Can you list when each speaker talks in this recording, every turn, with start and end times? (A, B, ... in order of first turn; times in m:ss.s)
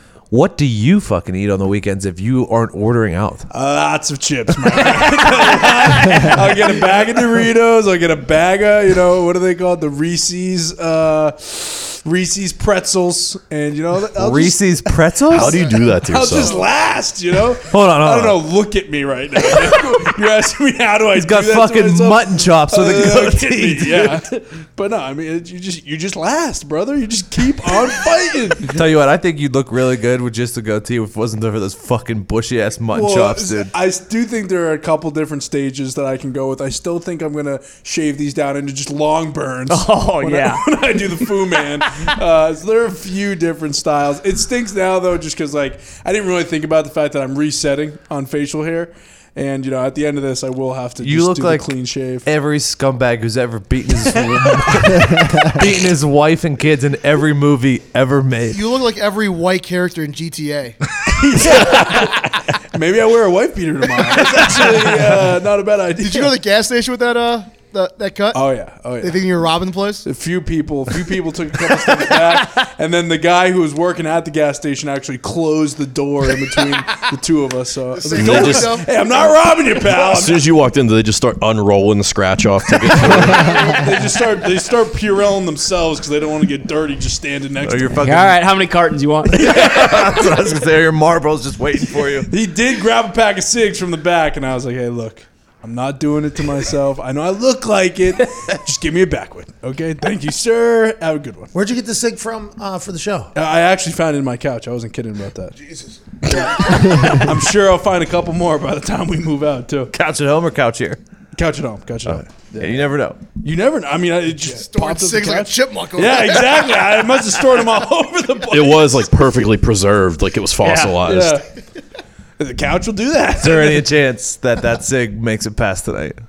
0:00.3-0:03.5 A
0:03.5-0:28.8 B
0:14.2-0:15.6 A
0:15.3-0:16.6 C
0:15.4-0:16.6 D
0:17.7-0:18.5 A
0:21.1-0:24.2 A
0:28.6-0:33.7 A
0:32.9-0:52.3 B
0:39.7-0:40.7 E
0:51.0-0:51.7 A
0:52.2-0:58.6 A
0:58.5-1:00.8 D
1:01.0-1:06.4 B
1:06.0-1:08.4 D
1:08.3-1:09.2 B
1:09.0-1:10.1 D
1:10.0-1:20.5 B
1:17.9-1:19.3 D
1:18.2-1:18.8 C
1:19.9-1:23.8 C
1:22.8-1:28.0 B
1:27.6-1:28.4 A
1:28.0-1:29.9 E
1:29.3-1:32.3 A
1:32.3-1:41.5 B
1:41.5-1:43.3 F
1:43.4-1:45.6 B
1:45.7-1:46.9 F
1:46.3-1:49.9 B
1:49.9-1:51.0 A
1:51.3-1:59.1 B
1:52.1-1:53.2 A
1:54.4-1:57.0 D
1:58.5-2:01.4 C
2:00.6-2:01.0 E
2:01.0-2:01.4 B
2:02.4-2:03.9 B
2:03.4-2:06.2 A